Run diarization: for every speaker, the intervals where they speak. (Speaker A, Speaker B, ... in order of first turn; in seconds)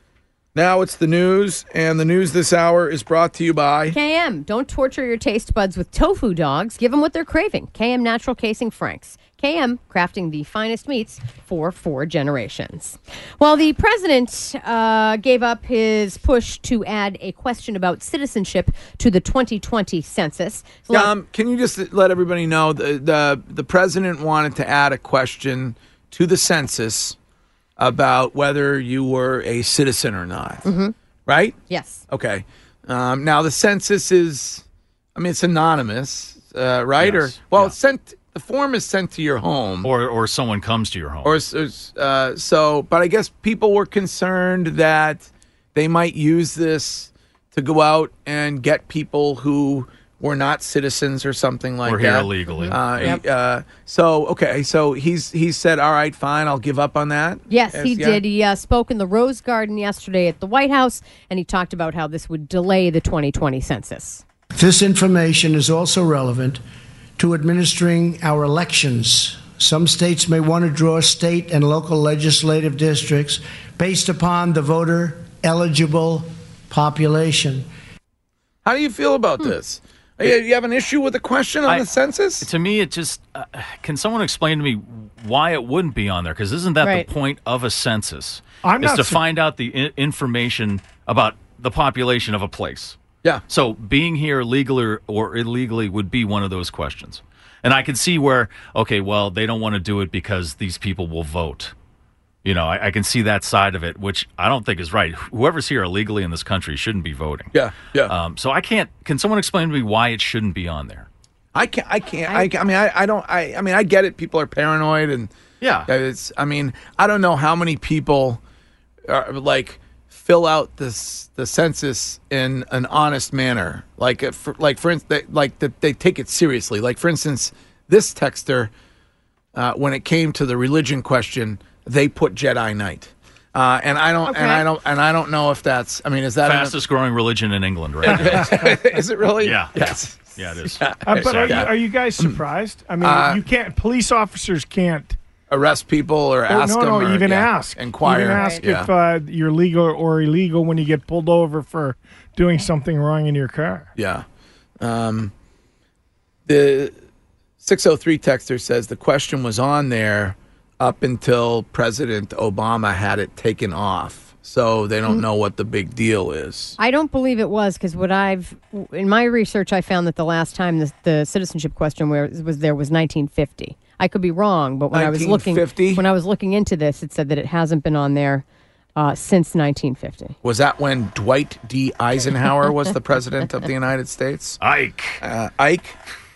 Speaker A: 0.5-4.0, 20.9-27.1, 27.8-30.6, 31.2-31.6, 32.1-39.9, 41.2-58.2, 78.6-82.5, 107.5-108.1, 111.5-115.3, 115.8-118.4, 119.1-128.7, 129.5-136.7, 138.0-142.4, 143.0-143.4, 145.5-148.9, 153.9-154.2, 154.8-155.3, 156.4-156.9, 157.6-166.8, 174.9-176.0, 180.4-184.6, 185.2-185.9
Speaker B: 3.9-21.1, 30.6-30.9, 31.7-32.0, 52.5-53.2, 57.5-64.2, 86.8-87.1, 134.2-134.7, 148.3-148.6, 166.8-178.4, 178.9-180.3
Speaker C: 37.0-37.7, 39.8-41.4, 51.8-53.1, 82.4-93.0, 93.5-101.7, 102.4-107.5, 108.0-111.1, 115.6-115.9, 136.4-138.8, 139.4-141.7, 184.6-185.2
Speaker D: 64.5-66.6, 67.2-77.7
Speaker E: 88.6-89.2, 141.1-145.2, 146.5-153.9